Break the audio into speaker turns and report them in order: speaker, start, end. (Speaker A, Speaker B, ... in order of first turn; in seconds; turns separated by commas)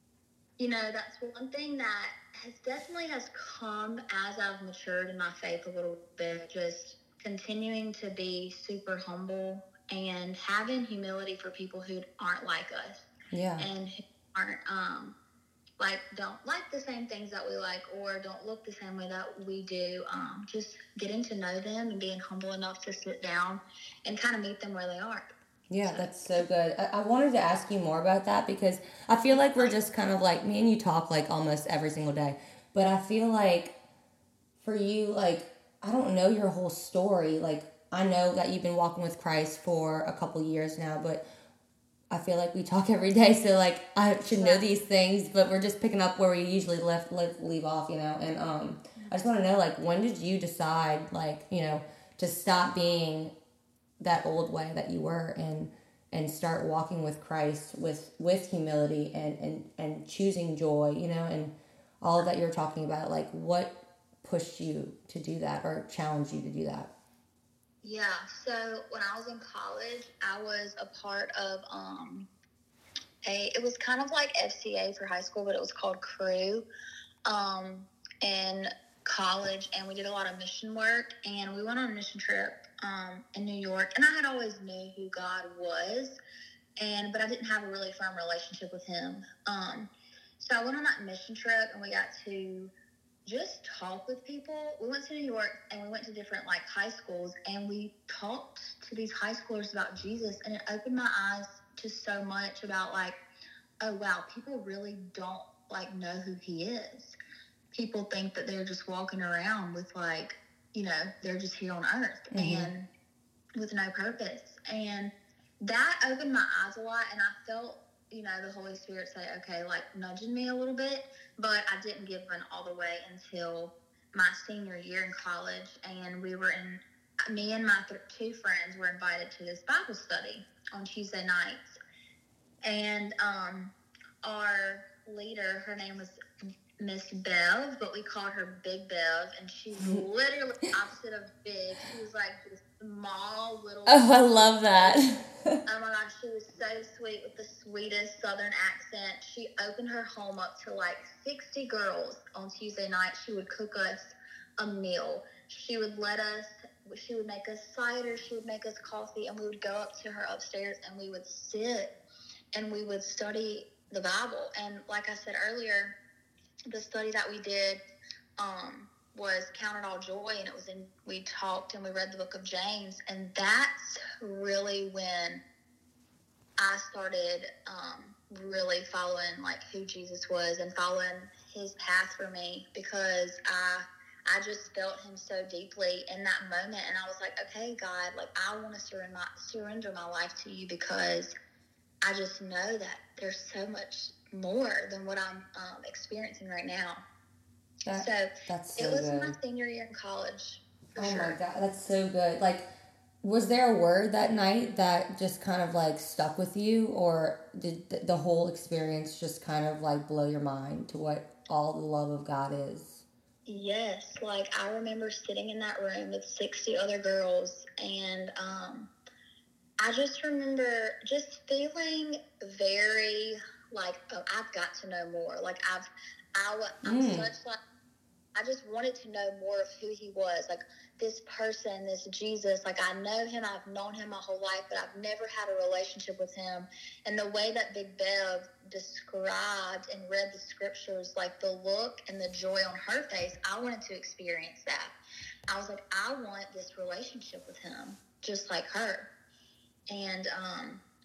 Speaker A: 0.6-13.1, Speaker B: 13.3-13.7, Speaker A: 13.6-15.2, Speaker A: 15.8-25.3, Speaker B: 25.7-33.8, Speaker A: 25.8-26.3, Speaker B: 34.6-41.2, Speaker B: 42.1-53.3, Speaker A: 44.4-44.6, Speaker B: 54.0-66.9, Speaker A: 67.8-72.3, Speaker A: 73.2-76.6, Speaker A: 77.2-86.2, Speaker A: 86.8-92.7, Speaker A: 93.2-103.2, Speaker A: 103.8-107.1, Speaker A: 107.7-112.9, Speaker B: 112.3-112.7, Speaker A: 113.6-131.8, Speaker A: 132.6-136.2, Speaker A: 136.8-145.0, Speaker B: 143.9-145.6, Speaker A: 145.7-161.9, Speaker A: 162.5-165.9, Speaker A: 166.7-167.8, Speaker A: 168.4-175.4, Speaker A: 176.6-191.3, Speaker A: 192.0-197.0, Speaker B: 197.8-199.3, Speaker A: 198.0-201.3, Speaker B: 201.0-202.7, Speaker B: 203.2-213.0, Speaker A: 213.5-218.9, Speaker A: 219.8-227.6, Speaker B: 226.8-227.3, Speaker A: 228.3-244.9, Speaker A: 245.5-249.1, Speaker A: 249.9-250.8